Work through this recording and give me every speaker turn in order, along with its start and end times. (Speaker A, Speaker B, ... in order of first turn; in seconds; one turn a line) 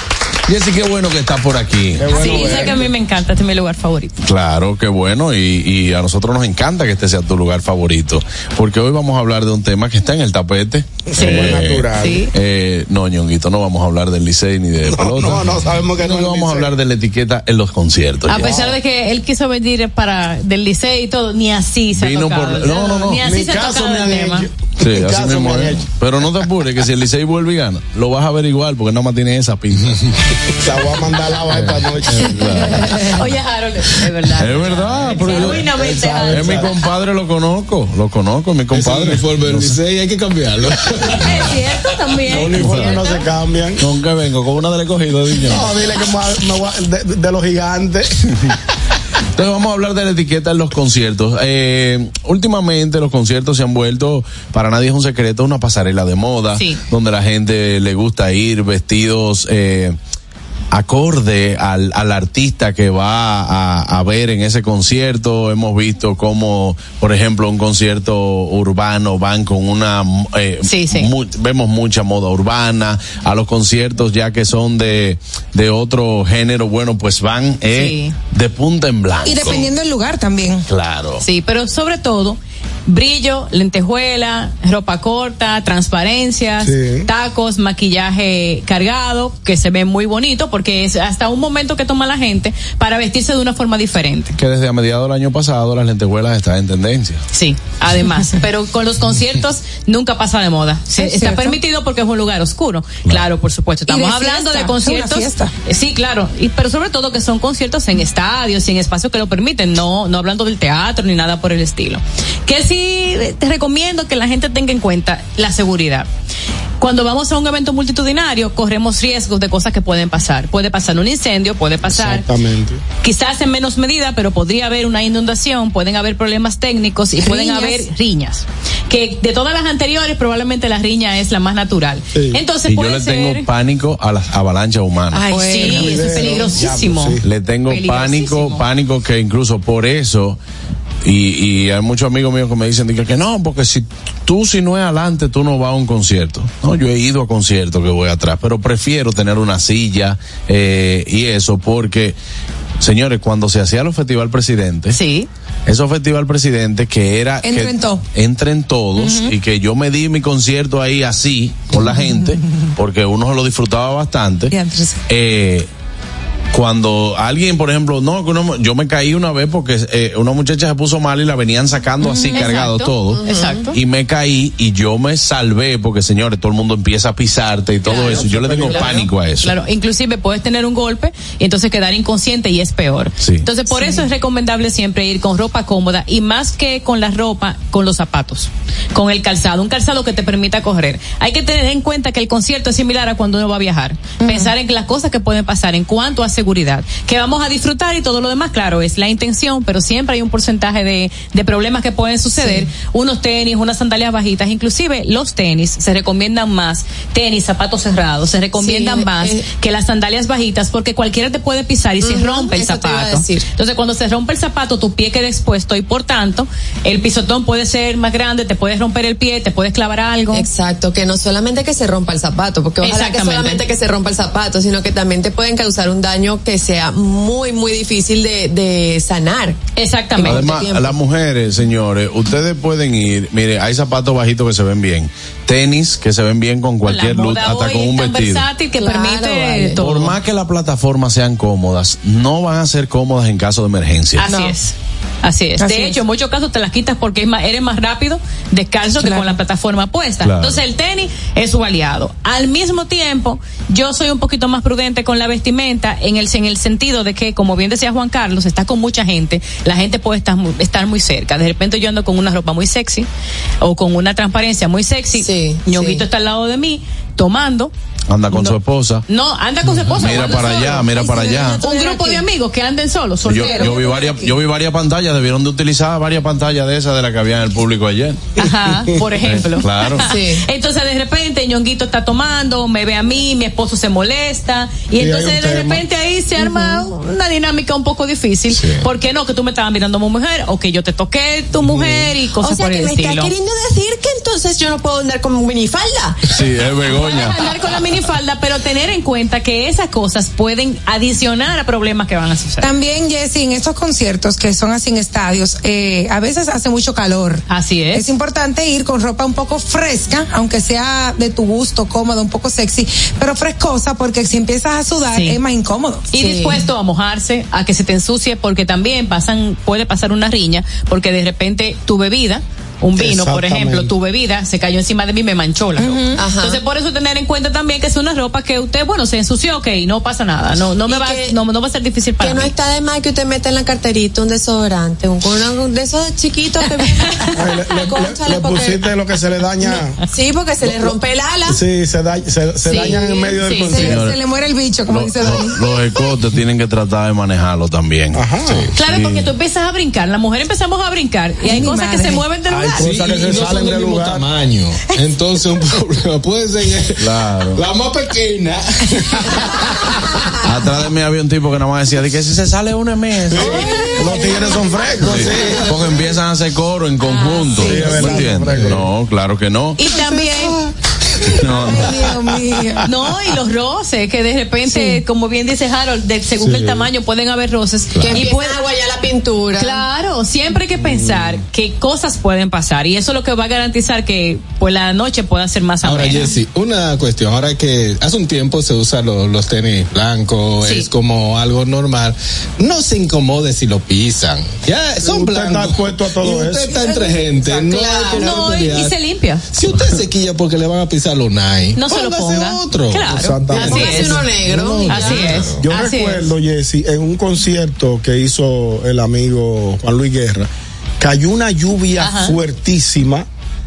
Speaker A: 0.5-2.2
Speaker B: 2.0-2.9
Speaker C: 2.1-4.1
Speaker A: 4.2-18.5
Speaker B: 11.1-12.2
Speaker C: 11.2-12.3
Speaker B: 14.9-16.7
Speaker C: 18.3-24.4
Speaker B: 18.4-18.8
Speaker A: 21.9-23.2
Speaker B: 23.2-25.9
Speaker A: 24.8-30.0
Speaker B: 30.6-32.5
Speaker D: 31.5-32.3
Speaker A: 32.2-33.2
Speaker C: 32.6-36.7
Speaker A: 34.3-39.7
Speaker B: 35.3-36.7
Speaker D: 38.7-41.4
Speaker C: 41.1-43.3
Speaker B: 42.3-43.8
Speaker A: 42.6-42.9
Speaker A: 43.8-45.7
Speaker B: 45.5-48.1
Speaker A: 49.4-60.0
Speaker C: 56.6-56.8
Speaker A: 60.7-79.7
Speaker C: 70.7-71.1
Speaker C: 77.7-78.2
Speaker E: 79.2-80.7
Speaker A: 80.7-81.2
Speaker C: 81.2-94.3
Speaker B: 86.6-87.1
Speaker A: 94.4-97.2
Speaker C: 97.3-116.1
Speaker E: 101.0-101.6
Speaker E: 103.9-105.5
Speaker C: 116.8-122.3
Speaker B: 121.9-122.8
Speaker C: 123.0-133.4
Speaker E: 127.2-127.8
Speaker B: 132.1-132.4
Speaker A: 132.7-135.3
Speaker C: 135.1-138.6
Speaker E: 135.1-136.1
Speaker B: 135.7-137.2
Speaker A: 137.2-140.4
Speaker A: 141.0-152.2
Speaker A: 152.8-155.0
Speaker C: 154.9-155.3
Speaker A: 155.7-164.6
Speaker E: 157.4-158.0
Speaker E: 159.0-159.3
Speaker E: 164.5-165.0
Speaker A: 165.1-165.7
Speaker A: 166.5-179.6
Speaker E: 172.0-172.4
Speaker C: 172.0-173.7
Speaker F: 173.1-173.7
Speaker C: 177.8-220.5
Speaker B: 178.1-179.1
Speaker A: 183.2-183.5
Speaker E: 183.7-184.0
Speaker E: 194.2-194.5
Speaker E: 202.4-202.7
Speaker F: 208.6-209.5
Speaker F: 212.0-213.5
Speaker F: 220.3-229.6
Speaker C: 222.8-223.6
Speaker C: 229.8-230.4
Speaker F: 230.2-231.0
Speaker A: 230.2-238.5
Speaker C: 236.8-240.2
Speaker F: 238.8-239.8
Speaker A: 239.8-244.2
Speaker C: 244.2-263.1
Speaker E: 244.3-244.6
Speaker E: 245.6-246.0
Speaker E: 248.9-249.4
Speaker A: 250.2-250.6
Speaker C: 263.6-267.7
Speaker F: 265.2-266.0
Speaker A: 268.1-269.1
Speaker C: 268.3-274.3
Speaker A: 269.9-271.6
Speaker E: 270.3-272.2
Speaker A: 273.2-278.2
Speaker E: 273.4-274.2
Speaker C: 278.4-293.3
Speaker A: 279.2-280.1
Speaker F: 280.0-280.4
Speaker B: 285.0-285.9
Speaker F: 286.4-286.9
Speaker A: 288.5-288.9
Speaker B: 291.6-292.1
Speaker F: 292.4-296.2
Speaker A: 296.3-297.4
Speaker C: 296.9-302.7
Speaker E: 302.6-316.1
Speaker C: 307.5-308.1
Speaker C: 315.1-315.4
Speaker C: 316.1-332.5
Speaker F: 316.2-316.6
Speaker B: 322.9-323.9
Speaker E: 325.8-326.2
Speaker F: 326.2-326.6
Speaker F: 330.9-331.4
Speaker F: 332.2-338.9
Speaker B: 337.4-340.0
Speaker F: 339.6-341.6
Speaker B: 340.6-340.9
Speaker B: 341.5-344.0
Speaker F: 342.6-343.7
Speaker E: 343.7-345.6
Speaker A: 343.8-344.2
Speaker A: 344.9-348.2
Speaker B: 348.1-348.7
Speaker A: 348.8-349.3
Speaker C: 348.8-353.4
Speaker E: 351.4-352.2
Speaker B: 352.5-354.2
Speaker D: 352.7-359.5
Speaker A: 357.0-357.6
Speaker A: 360.4-363.6
Speaker B: 363.3-365.9
Speaker E: 363.6-364.2
Speaker A: 365.0-369.8
Speaker D: 365.1-365.5
Speaker B: 367.6-368.8
Speaker E: 367.7-368.0
Speaker D: 368.5-368.8
Speaker C: 369.8-370.7
Speaker A: 371.4-371.9
Speaker E: 371.4-372.9
Speaker C: 372.9-378.6
Speaker E: 374.7-375.0
Speaker B: 376.5-376.8
Speaker F: 378.0-379.9
Speaker C: 379.6-386.3
Speaker B: 380.9-381.4
Speaker D: 385.8-398.9
Speaker C: 390.6-390.9
Speaker B: 395.0-396.8
Speaker F: 397.4-398.4
Speaker C: 397.9-399.4
Speaker D: 399.5-405.6
Speaker C: 401.8-404.2
Speaker B: 403.1-404.1
Speaker F: 403.5-405.4
Speaker C: 404.9-406.3
Speaker B: 405.5-410.5
Speaker B: 411.0-413.3
Speaker C: 412.0-412.4